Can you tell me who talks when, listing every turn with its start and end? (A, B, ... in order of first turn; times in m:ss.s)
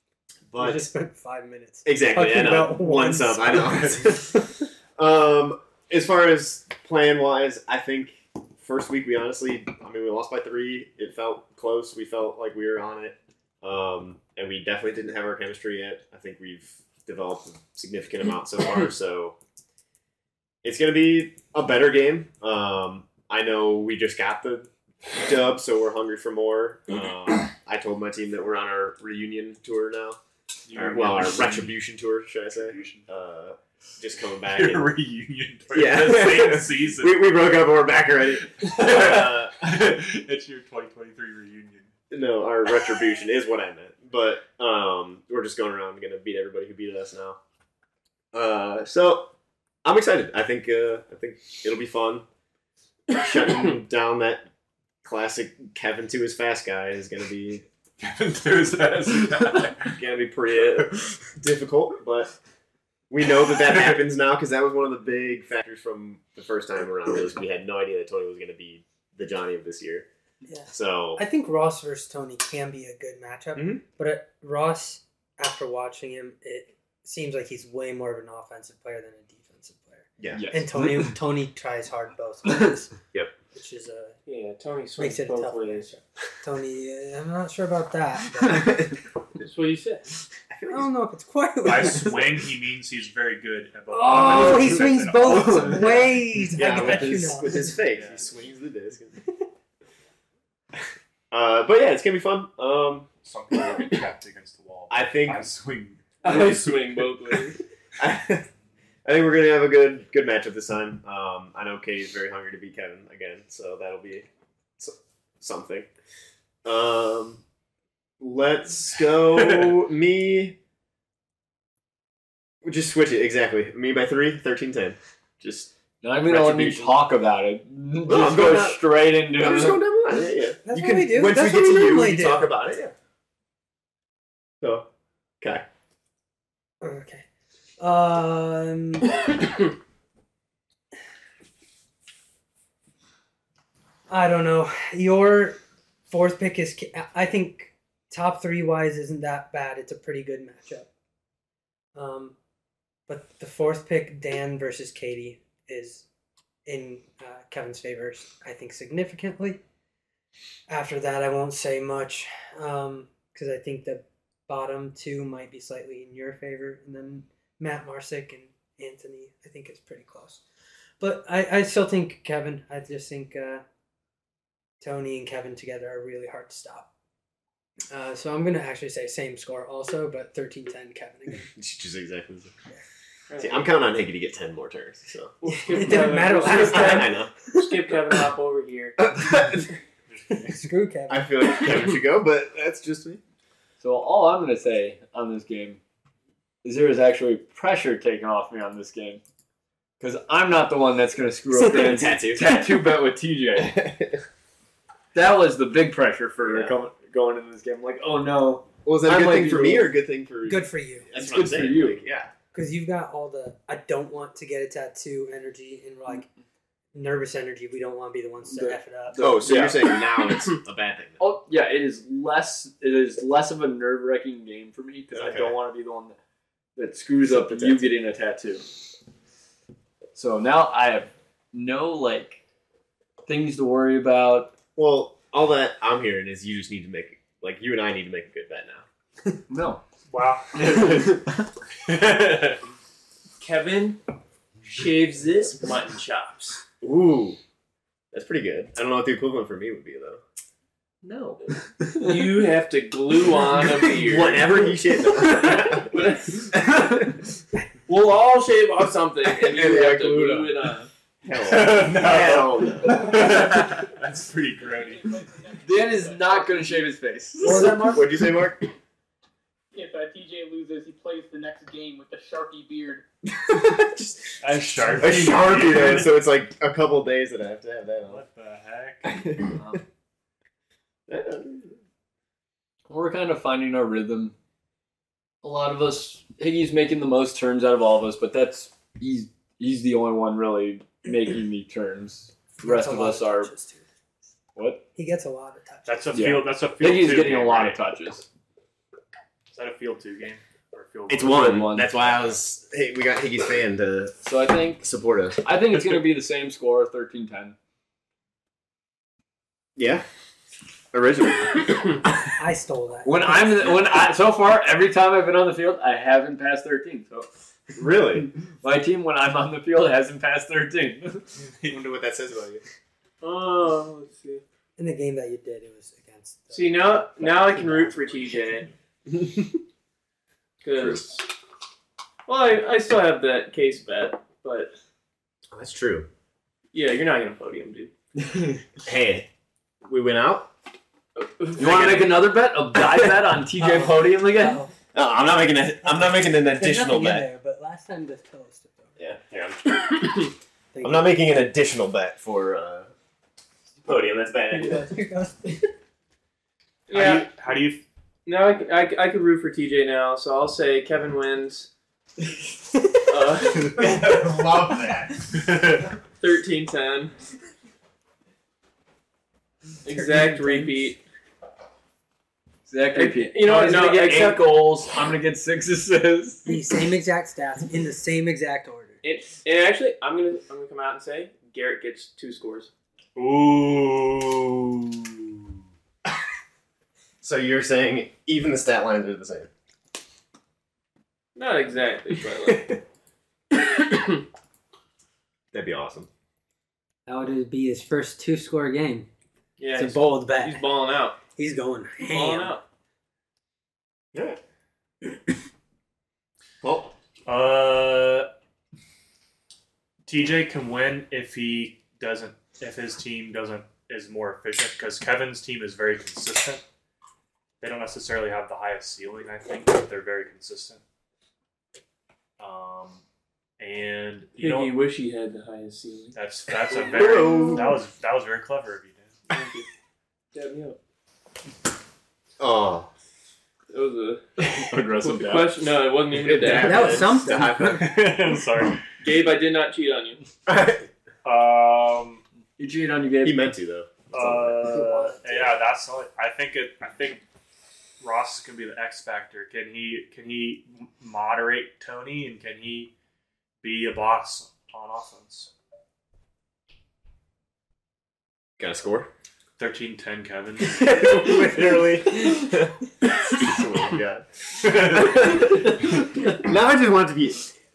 0:00.5-0:00.9 A
0:00.6-0:04.0 B
0:01.8-0:19.4 A
0:20.6-0:30.2 A
0:30.6-0:31.8 C
0:30.7-0:34.9 A
0:32.5-0:33.1 C
0:34.4-0:37.4 C
0:35.7-0:39.5 A
0:38.6-0:41.9 C
0:42.1-0:47.4 A
0:48.3-0:49.3 A
0:49.8-0:52.2 A
0:53.1-0:54.5 A
0:55.0-0:57.6 A
0:58.0-1:00.0 C
0:59.9-1:02.3 A
1:00.8-1:01.0 C
1:03.1-1:10.1 A
1:10.5-1:23.0 B
1:10.7-1:11.2 A
1:13.5-1:13.8 A
1:20.2-1:20.4 A
1:20.3-1:21.1 D
1:23.5-1:24.2 B
1:24.2-1:25.9 E
1:25.0-1:28.9 B
1:29.4-1:30.1 E
1:30.5-1:30.9 A
1:30.7-1:32.4 B
1:31.6-1:36.2 C
1:33.9-1:37.8 B
1:34.3-1:34.7 D
1:35.2-1:35.9 D
1:36.5-1:39.2 A
1:36.8-1:38.3 C
1:40.8-1:43.1 A
1:43.2-1:47.0 C
1:44.9-1:45.5 A
1:46.2-1:47.6 E
1:48.0-1:48.5 A
1:49.0-1:54.3 A
1:54.8-1:55.9 A
1:56.6-1:57.4 A
1:58.2-2:00.6 A
2:02.6-2:05.7 A
2:06.0-2:09.8 D
2:06.2-2:07.0 A
2:08.0-2:12.9 A
2:10.6-2:12.5 B
2:14.6-2:14.9 A
2:16.8-2:17.2 B
2:17.8-2:19.3 B
2:24.1-2:30.9 B
2:31.9-2:32.3 B
2:33.1-2:36.0 B
2:36.6-2:39.6 B
2:40.7-2:50.4 B
2:51.0-2:53.6 B
2:54.8-2:56.9 B
2:57.9-3:01.5 B
3:01.5-3:02.5 A
3:03.3-3:03.6 E
3:03.4-3:05.3 A
3:05.4-3:09.0 E
3:05.5-3:07.7 B
3:06.4-3:07.5 A
3:09.0-3:09.7 A
3:10.1-3:10.6 C
3:10.5-3:11.7 B
3:11.1-3:13.2 A
3:13.8-3:15.8 D
3:16.6-3:19.2 D
3:20.0-3:23.8 D
3:21.6-3:22.7 A
3:23.6-3:24.2 A
3:25.1-3:29.9 D
3:26.4-3:26.8 A
3:28.8-3:32.3 A
3:30.4-3:31.1 B
3:31.1-3:32.0 D
3:32.5-3:36.3 B
3:36.9-3:39.4 B
3:38.4-3:39.8 D
3:39.2-3:41.3 A
3:41.2-3:46.2 D
3:45.1-3:45.6 A
3:46.8-3:48.6 D
3:47.2-3:47.9 A
3:50.1-3:52.4 D
3:53.2-3:54.5 D
3:54.8-3:58.8 A
3:59.5-3:59.8 D
4:00.1-4:01.0 C
4:00.5-4:01.4 D
4:01.9-4:02.6 C
4:03.4-4:04.0 E
4:04.6-4:06.6 E
4:06.8-4:07.4 A
4:08.1-4:10.2 A
4:11.0-4:16.6 E
4:11.8-4:12.4 D
4:13.8-4:16.0 A
4:16.6-4:17.0 D
4:17.9-4:20.9 E
4:19.4-4:20.5 A
4:21.2-4:23.2 A
4:21.4-4:25.1 C
4:24.6-4:26.9 F
4:25.6-4:27.9 D
4:27.4-4:28.0 B
4:27.8-4:28.7 A
4:29.7-4:33.0 F
4:33.3-4:38.2 A
4:34.4-4:36.1 C
4:38.0-4:39.2 C
4:39.0-4:39.6 A
4:39.5-4:39.8 D
4:41.1-4:41.8 A
4:42.9-4:44.3 D
4:45.4-4:53.5 D
4:52.6-4:53.8 B
4:54.6-4:54.8 D
4:55.0-4:56.1 B
4:55.8-4:57.8 C
4:56.1-4:58.3 D
4:59.5-5:02.4 C
5:01.1-5:04.2 A
5:01.3-5:01.9 D
5:04.2-5:04.9 D
5:04.8-5:05.4 A
5:05.4-5:07.6 D
5:05.7-5:06.1 C
5:09.8-5:10.0 A
5:10.9-5:12.1 A
5:12.4-5:13.5 B
5:13.0-5:17.3 D
5:17.8-5:18.3 A
5:18.2-5:21.4 D
5:21.6-5:22.6 A
5:23.2-5:24.4 E
5:24.8-5:28.6 B
5:26.5-5:28.7 E
5:29.1-5:29.6 A
5:30.6-5:31.3 E
5:30.8-5:31.0 A
5:32.3-5:34.7 E
5:35.5-5:36.1 A
5:36.7-5:37.9 E
5:38.2-5:38.5 D
5:38.8-5:39.3 A
5:39.8-5:40.5 A
5:41.2-5:41.9 E
5:41.6-5:44.6 D
5:41.6-5:42.2 A
5:43.6-5:44.7 B
5:44.9-5:47.3 A
5:45.9-5:49.0 B
5:49.0-5:50.2 A
5:50.7-5:51.1 B
5:50.8-5:52.9 A
5:53.8-5:54.9 A
5:54.5-5:55.7 B
5:56.9-5:57.3 E
5:56.9-5:57.8 C
5:58.2-6:01.7 E
6:03.0-6:04.2 E
6:03.8-6:05.1 A
6:05.3-6:05.9 C
6:06.2-6:07.1 E
6:09.8-6:11.0 E
6:09.9-6:10.8 B
6:12.7-6:16.5 D
6:12.9-6:14.6 E
6:16.4-6:19.0 B
6:19.0-6:22.7 E
6:23.2-6:25.5 C
6:27.2-6:29.5 A
6:31.4-6:32.7 E
6:32.4-6:32.8 A
6:33.7-6:34.2 E
6:35.5-6:36.1 A
6:37.1-6:39.1 B
6:39.6-6:41.2 E
6:39.7-6:42.6 B
6:42.0-6:42.6 E
6:44.1-6:44.4 A
6:46.6-6:46.9 A
6:47.2-6:48.3 C
6:50.1-6:56.6 C
6:57.6-7:00.8 C
7:02.4-7:03.0 C
7:03.6-7:04.7 C
7:04.4-7:06.2 E
7:06.2-7:09.2 C
7:06.7-7:07.7 E
7:06.9-7:07.8 A
7:09.3-7:09.7 E
7:10.3-7:10.8 E
7:12.4-7:12.9 A
7:13.7-7:14.2 E
7:14.4-7:15.6 D
7:15.0-7:17.0 E
7:16.1-7:17.9 A
7:16.6-7:17.5 B
7:17.6-7:18.8 C
7:19.0-7:20.3 E
7:20.5-7:20.9 A
7:21.2-7:22.2 C
7:22.6-7:23.4 D
7:23.2-7:25.1 A
7:24.1-7:27.2 C
7:28.0-7:32.9 C
7:33.6-7:35.5 C
7:38.6-7:39.1 A
7:39.6-7:41.4 C
7:40.7-7:47.5 A
7:44.7-7:45.2 C